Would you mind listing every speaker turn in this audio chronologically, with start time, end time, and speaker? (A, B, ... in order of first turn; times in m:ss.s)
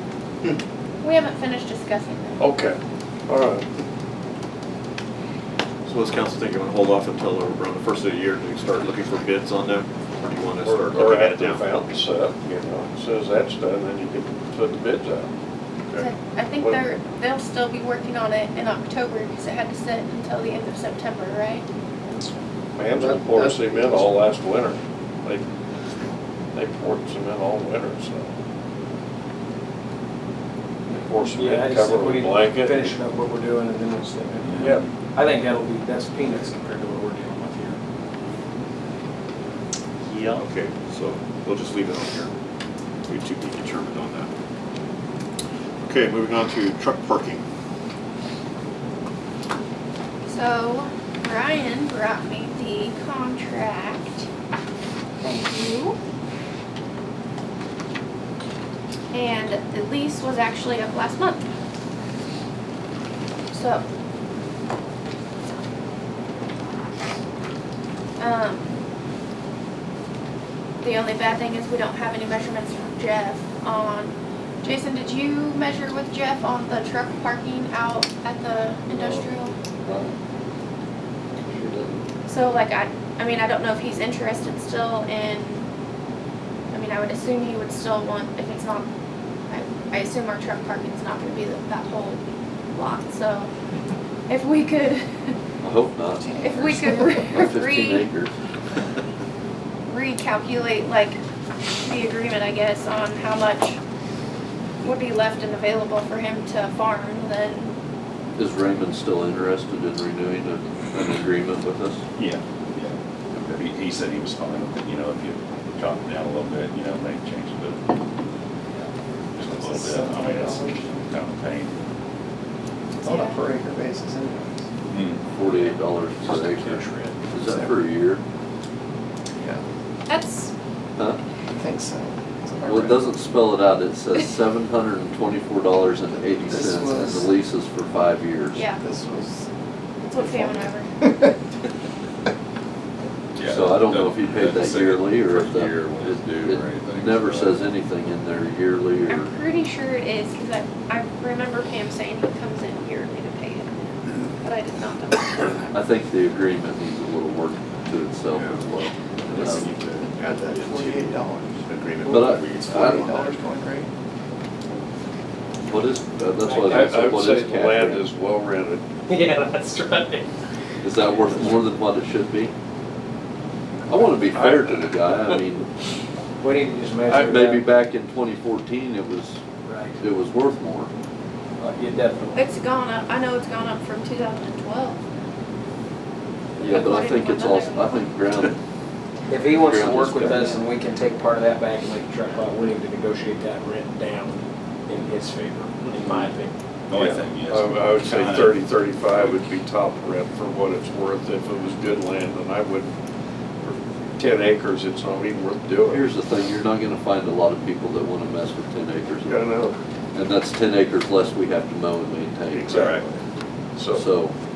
0:01.0-0:02.5 A
0:02.4-0:03.6 B
0:05.8-0:12.5 C
0:10.6-0:15.3 B
0:15.9-0:16.9 B
0:16.0-0:21.6 A
0:22.7-0:25.4 B
0:23.0-0:23.9 D
0:26.5-0:28.3 B
0:30.9-0:32.9 B
0:31.3-0:37.8 E
0:34.4-0:34.9 F
0:34.6-0:34.8 B
0:40.2-0:42.3 C
0:43.1-0:44.3 C
0:45.8-0:47.4 C
0:50.3-0:54.3 A
0:55.2-0:56.0 A
0:59.1-1:01.4 A
1:03.5-1:03.8 A
1:08.2-1:08.8 A
1:10.8-1:19.6 A
1:18.9-1:19.2 G
1:19.8-1:20.1 G
1:21.4-1:22.0 G
1:22.2-1:25.6 A
1:26.7-1:28.9 A
1:29.5-1:32.2 A
1:32.7-1:33.5 A
1:34.3-1:35.3 A
1:35.6-1:36.4 G
1:36.2-1:37.2 D
1:36.4-1:38.1 A
1:37.2-1:38.3 G
1:39.9-1:41.2 A
1:41.8-1:43.8 A
1:44.8-1:47.8 A
1:48.4-1:52.0 G
1:52.2-1:53.0 F
1:53.3-1:53.6 G
1:53.5-1:57.8 F
1:59.4-2:01.8 F
1:59.4-2:01.1 D
2:03.0-2:04.7 D
2:03.1-2:03.4 A
2:04.8-2:05.2 F
2:05.3-2:08.2 G
2:06.2-2:06.8 F
2:07.4-2:07.7 D
2:10.1-2:10.5 A
2:11.5-2:13.1 D
2:12.6-2:18.7 G
2:16.4-2:17.3 D
2:18.5-2:18.8 A
2:18.8-2:19.5 D
2:20.0-2:20.9 A
2:20.2-2:21.4 D
2:23.3-2:27.6 F
2:23.4-2:29.3 G
2:29.1-2:35.7 A
2:35.7-2:39.7 G
2:39.3-2:41.1 C
2:40.2-2:41.6 D
2:41.7-2:42.9 C
2:42.0-2:43.1 G
2:42.6-2:43.9 D
2:45.6-2:48.1 G
2:46.4-2:47.0 E
2:46.6-2:48.8 B
2:49.1-2:50.2 E
2:50.8-2:52.5 G
2:53.9-2:55.7 G
2:54.3-2:55.2 B
2:56.4-2:57.6 E
2:57.1-2:59.4 G
2:59.6-3:00.0 E
3:00.0-3:00.9 G
3:01.6-3:02.5 E
3:02.3-3:05.0 A
3:06.6-3:08.6 G
3:06.7-3:08.0 A
3:09.3-3:16.5 E
3:09.5-3:10.6 G
3:16.9-3:18.6 F
3:16.9-3:22.9 B
3:23.6-3:26.0 B
3:25.9-3:29.5 G
3:29.2-3:29.8 B
3:30.1-3:32.9 G
3:32.5-3:33.2 B
3:32.7-3:33.0 F
3:33.8-3:34.0 B
3:33.9-3:34.3 G